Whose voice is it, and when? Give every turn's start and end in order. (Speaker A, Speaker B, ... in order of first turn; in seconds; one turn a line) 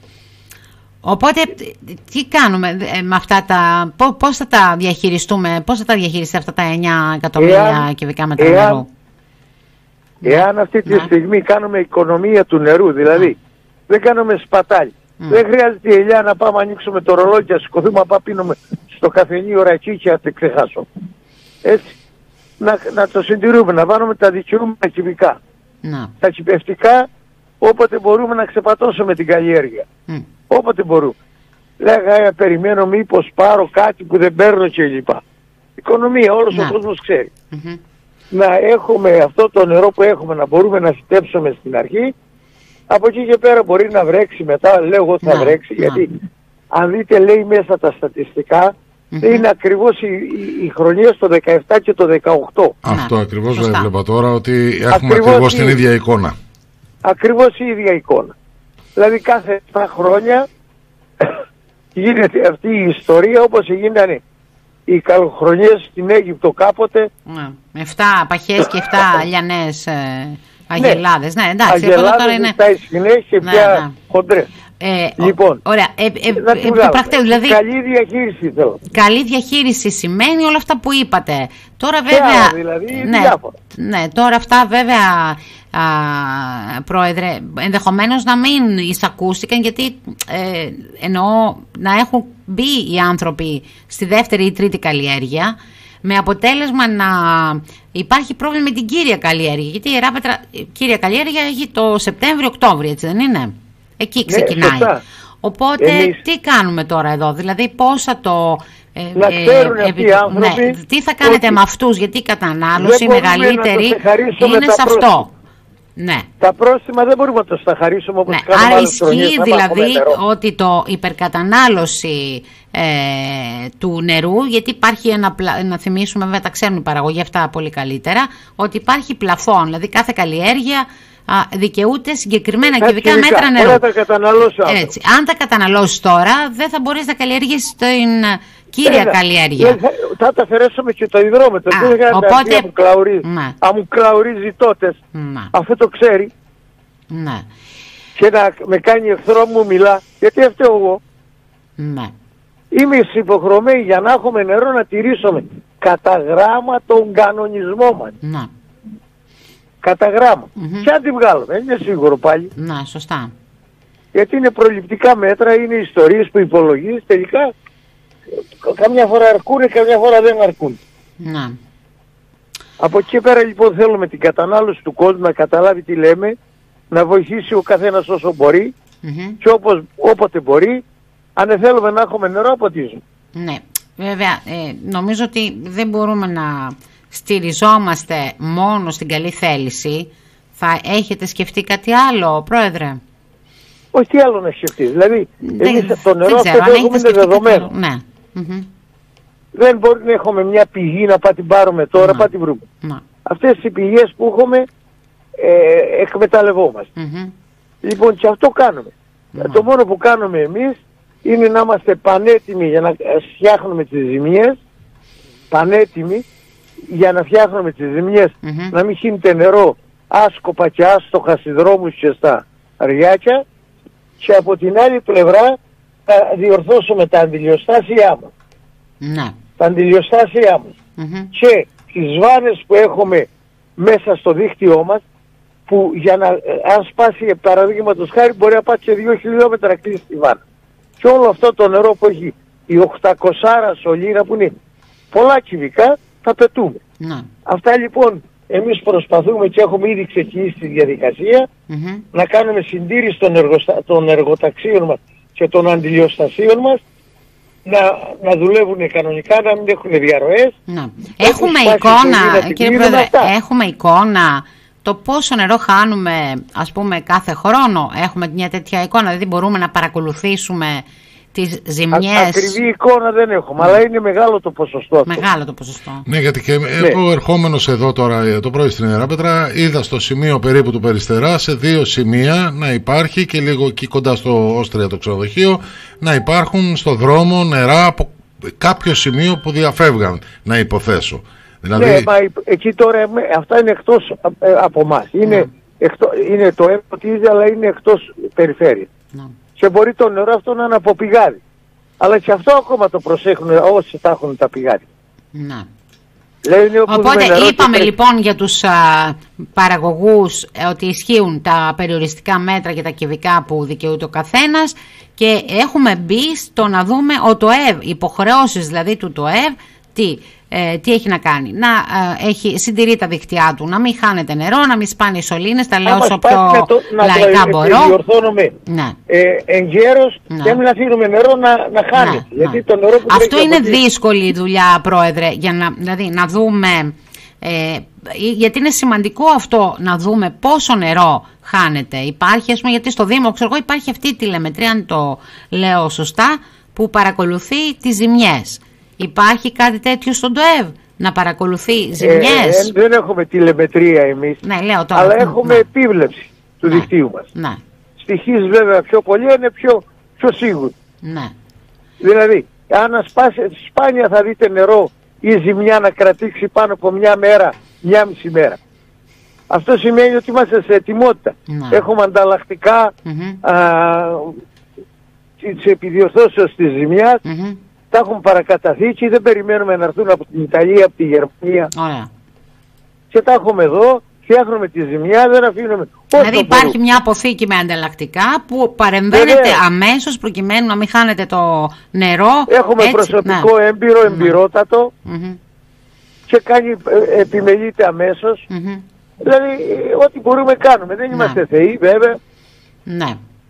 Speaker A: 1.0-8.9
Speaker B: 7.4-7.9
Speaker B: 8.4-8.8
Speaker A: 10.2-11.1
Speaker B: 10.2-13.4
Speaker B: 13.9-20.9
Speaker B: 21.6-21.9
Speaker B: 22.6-25.4
Speaker A: 25.8-26.1
Speaker B: 26.2-27.1
Speaker B: 27.6-29.9
Speaker B: 30.5-31.2
Speaker B: 31.8-35.2
Speaker B: 35.8-37.3
Speaker A: 36.5-36.8
Speaker A: 37.5-37.8
Speaker B: 38.3-42.1
Speaker B: 42.9-46.2
Speaker A: 45.2-46.0
Speaker B: 46.7-52.8
Speaker A: 49.1-49.5
Speaker C: 52.8-56.4
Speaker A: 52.9-53.9
Speaker B: 54.9-55.8
Speaker B: 57.0-58.4
Speaker B: 59.0-60.5
Speaker B: 62.0-64.2
Speaker B: 64.9-67.1
Speaker A: 67.3-72.6
Speaker B: 68.9-69.2
Speaker B: 70.8-71.0
Speaker B: 71.7-74.5
Speaker A: 73.4-74.0
Speaker A: 74.8-77.6
Speaker B: 75.2-75.6
Speaker B: 76.3-78.8
Speaker A: 78.9-104.9
Speaker B: 82.1-83.5
Speaker B: 104.3-105.0
Speaker A: 105.4-115.3
Speaker B: 105.8-106.2
Speaker B: 109.2-111.6
Speaker B: 112.8-115.2
Speaker A: 116.0-116.3
Speaker B: 116.4-120.2
Speaker A: 118.3-133.8
Speaker B: 132.7-134.9
Speaker A: 134.7-139.8
Speaker B: 138.8-145.0
Speaker A: 141.7-142.7
Speaker A: 143.2-143.6
Speaker A: 145.1-145.5
Speaker B: 145.5-146.3
Speaker A: 147.1-147.5
Speaker B: 148.2-151.0
Speaker A: 151.8-152.1
Speaker B: 152.7-158.2
Speaker A: 158.2-158.5
Speaker B: 159.8-162.5
Speaker A: 160.6-160.9
Speaker A: 162.6-163.3
Speaker B: 164.1-167.5
Speaker B: 168.6-170.8
Speaker A: 171.2-171.6
Speaker B: 172.8-176.4
Speaker B: 176.9-178.7
Speaker A: 179.0-179.4
Speaker B: 179.4-180.8
Speaker B: 181.4-183.0
Speaker A: 183.3-193.0
Speaker B: 193.9-197.7
Speaker A: 195.4-198.7
Speaker B: 199.5-202.7
Speaker A: 202.0-202.3
Speaker B: 203.2-204.7
Speaker B: 205.4-206.9
Speaker A: 207.0-207.3
Speaker B: 207.8-214.6
Speaker A: 209.3-209.7
Speaker B: 215.5-216.2
Speaker B: 216.8-223.4
Speaker A: 218.4-218.7
Speaker B: 224.2-228.3
Speaker A: 229.0-229.4
Speaker B: 229.6-230.8
Speaker A: 231.0-231.3
Speaker B: 231.3-235.0
Speaker B: 235.7-240.4
Speaker B: 241.0-244.5
Speaker B: 245.1-246.8
Speaker A: 247.0-247.3
Speaker B: 247.5-251.5
Speaker A: 251.7-252.1
Speaker B: 252.1-256.8
Speaker B: 257.6-260.5
Speaker A: 260.7-272.6
Speaker B: 261.2-263.3
Speaker B: 271.9-275.2
Speaker A: 275.1-276.1
Speaker C: 276.1-292.1
Speaker B: 291.8-298.9
Speaker A: 295.2-295.5
Speaker B: 299.6-301.4
Speaker B: 302.0-304.9
Speaker A: 305.4-305.7
Speaker B: 306.4-307.9
Speaker A: 306.9-328.0
Speaker B: 325.9-328.5
Speaker A: 328.7-329.0
Speaker B: 329.1-333.8
Speaker A: 330.3-330.6
Speaker A: 331.9-352.7
Speaker B: 352.0-354.4
Speaker A: 354.4-355.7
Speaker B: 354.9-357.3
Speaker A: 356.6-357.6
Speaker B: 358.0-360.7
Speaker A: 361.0-361.3
Speaker B: 362.0-368.6
Speaker B: 369.5-374.4
Speaker A: 371.5-371.8
Speaker A: 373.1-373.4
Speaker B: 375.4-377.2
Speaker A: 377.2-377.6
Speaker B: 377.9-381.7
Speaker A: 381.8-382.1
Speaker B: 383.1-386.8
Speaker A: 386.1-393.5
Speaker B: 389.1-389.6
Speaker B: 392.5-394.9
Speaker A: 394.1-394.4
Speaker A: 395.1-395.4
Speaker B: 396.3-398.4
Speaker A: 398.5-398.8
Speaker B: 399.2-402.2
Speaker A: 401.1-401.4
Speaker A: 402.9-403.2